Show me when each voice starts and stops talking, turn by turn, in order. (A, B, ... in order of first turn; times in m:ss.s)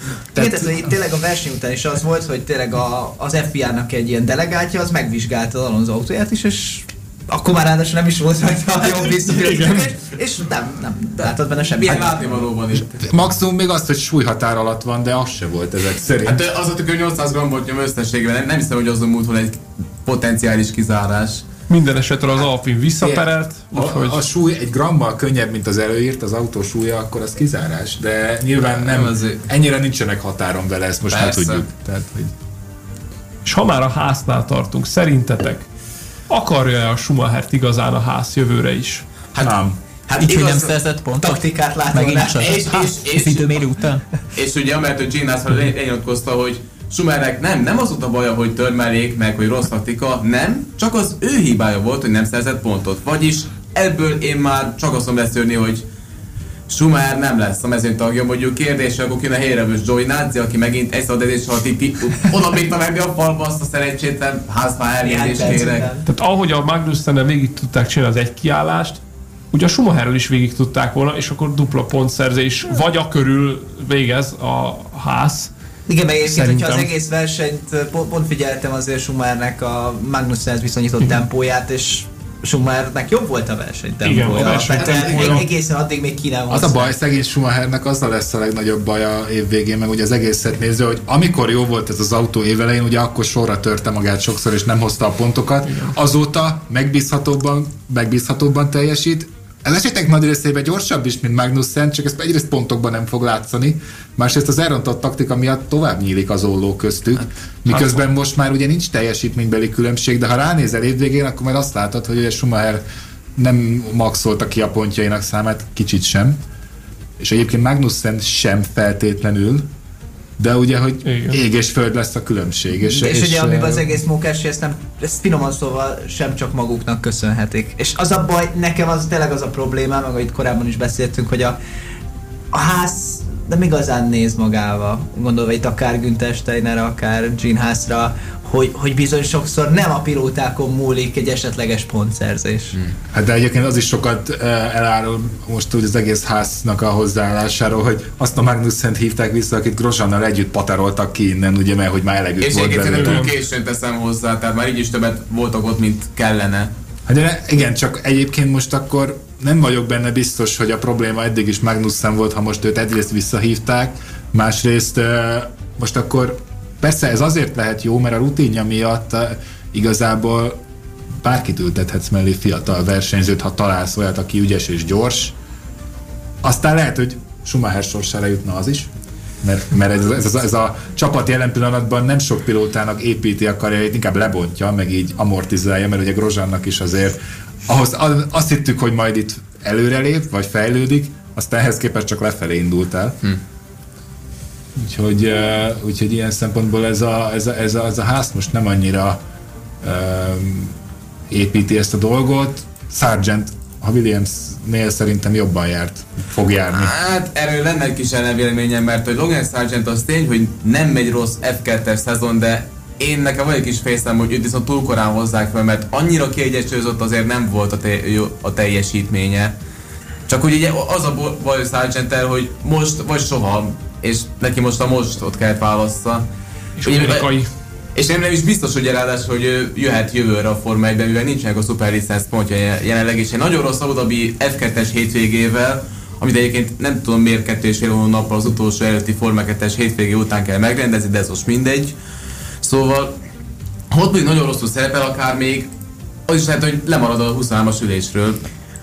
0:00.4-0:00.7 A
0:00.4-0:12.4 B
0:09.1-0:09.9 C
0:11.8-0:13.2 D
0:12.7-0:16.4 A
0:16.2-0:21.5 D
0:21.7-0:24.3 C
0:23.0-0:32.3 A
0:28.7-0:29.4 D
0:31.1-0:31.6 D
0:33.4-0:35.7 C
0:36.3-0:39.1 C
0:39.4-0:39.8 A
0:40.1-0:44.1 E
0:40.1-0:40.7 D
0:41.2-0:42.9 B
0:42.4-0:43.7 D
0:44.3-0:55.8 D
0:56.7-1:06.0 D
1:05.0-1:06.1 B
1:06.1-1:15.5 C
1:15.9-1:26.9 B
1:16.2-1:16.9 C
1:24.0-1:25.5 C
1:24.8-1:25.3 D
1:25.1-1:25.4 A
1:26.5-1:52.8 A
1:35.6-1:36.0 C
1:47.7-1:48.0 D
1:53.4-1:56.4 A
1:57.2-1:59.7 A
2:00.4-2:03.8 A
2:01.0-2:01.4 C
2:02.9-2:11.6 B
2:12.5-2:22.8 B
2:23.1-2:33.3 A
2:32.4-2:36.7 D
2:32.9-2:33.3 C
2:37.1-2:50.6 A
2:51.2-2:55.4 A
2:56.4-2:58.9 A
2:59.4-3:13.2 A
3:14.8-3:19.2 A
3:19.8-3:20.8 A
3:21.3-3:26.9 A
3:26.7-3:39.5 D
3:40.3-3:46.3 D
3:46.8-3:47.5 C
3:46.8-3:47.3 D
3:48.0-4:01.9 D
4:02.6-4:03.2 D
4:03.9-4:05.7 D
4:06.3-4:08.4 D